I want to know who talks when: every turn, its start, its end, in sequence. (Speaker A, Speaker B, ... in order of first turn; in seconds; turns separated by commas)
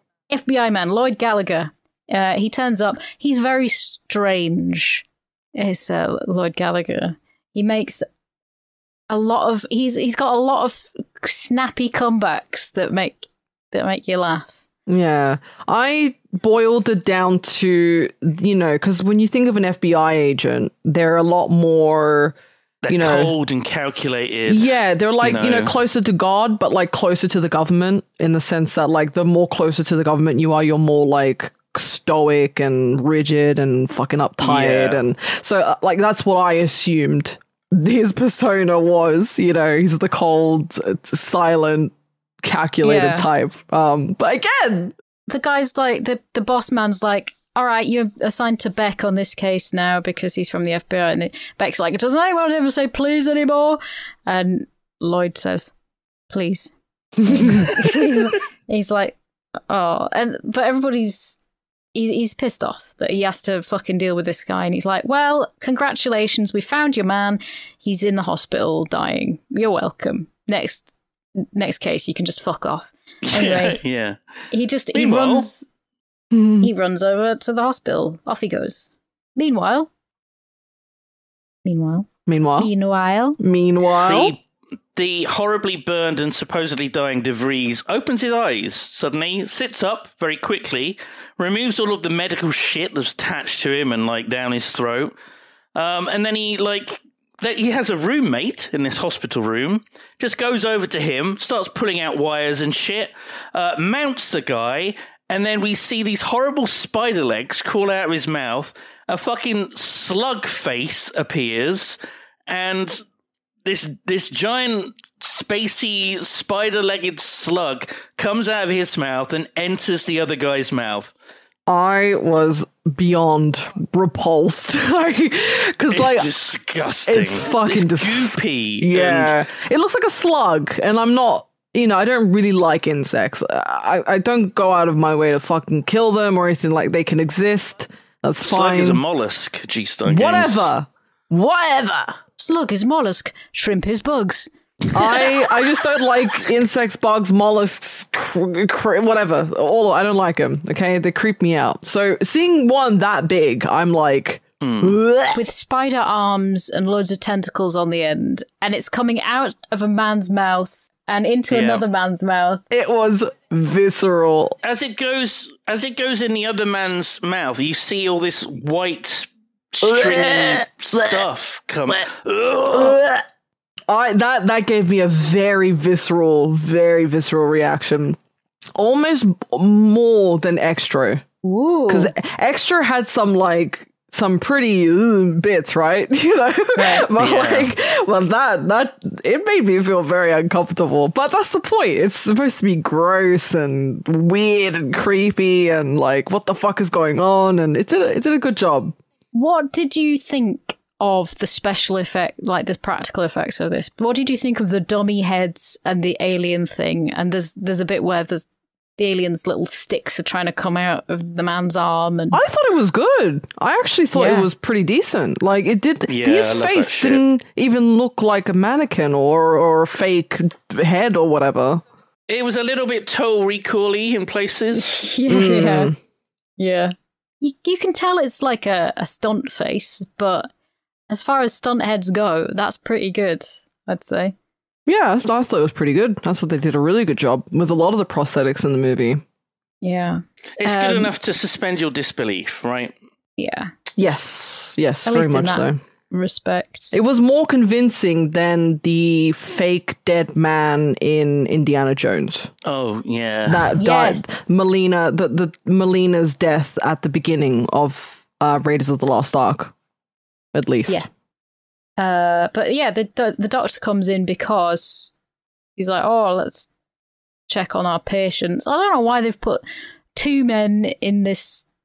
Speaker A: 0.3-8.0, Speaker A: 9.1-14.6, Speaker B: 14.9-22.4, Speaker C: 22.8-25.7, Speaker B: 22.9-23.3, Speaker B: 24.5-44.9, Speaker C: 34.4-35.0, Speaker A: 42.8-43.3, Speaker A: 45.3-55.7, Speaker A: 56.3-59.2, Speaker A: 59.7-61.4, Speaker A: 61.9-70.9, Speaker A: 71.5-73.8, Speaker C: 73.2-74.2, Speaker A: 74.5-75.7, Speaker C: 74.9-75.5, Speaker B: 76.3-76.7, Speaker A: 76.6-79.9, Speaker A: 81.6-83.4, Speaker B: 82.3-82.7, Speaker B: 83.4-84.3, Speaker C: 84.0-84.4, Speaker C: 84.9-95.1, Speaker C: 95.7-112.0, Speaker C: 112.5-113.0, Speaker C: 113.6-121.1, Speaker B: 121.7-126.3, Speaker C: 125.9-129.4, Speaker B: 127.1-139.0, Speaker C: 138.4-140.7, Speaker B: 140.0-142.2, Speaker A: 142.4-144.5, Speaker B: 144.9-155.4, Speaker C: 154.6-155.0, Speaker A: 155.3-162.6, Speaker C: 161.5-161.8, Speaker B: 162.7-164.6, Speaker C: 164.6-173.0, Speaker B: 169.8-171.2, Speaker B: 172.7-173.2, Speaker B: 173.9-178.2, Speaker B: 178.8-181.2, Speaker A: 181.4-182.1, Speaker B: 181.9-198.9, Speaker A: 186.7-187.1, Speaker C: 187.2-187.7, Speaker A: 199.3-212.4, Speaker B: 212.3-221.8, Speaker A: 214.1-214.5, Speaker C: 216.1-217.2, Speaker C: 222.3-225.0, Speaker A: 224.8-225.9, Speaker B: 225.3-225.9, Speaker A: 226.6-230.5, Speaker A: 231.1-234.3, Speaker B: 234.9-239.2, Speaker A: 239.8-241.1, Speaker C: 240.6-242.9, Speaker A: 243.4-243.7, Speaker B: 244.0-245.8, Speaker A: 245.1-246.9, Speaker B: 246.9-252.5, Speaker C: 252.6-253.8, Speaker B: 253.4-259.7, Speaker A: 253.8-254.5, Speaker B: 260.5-261.0, Speaker A: 262.0-265.1, Speaker A: 265.8-266.7, Speaker A: 267.5-269.6, Speaker A: 270.1-271.6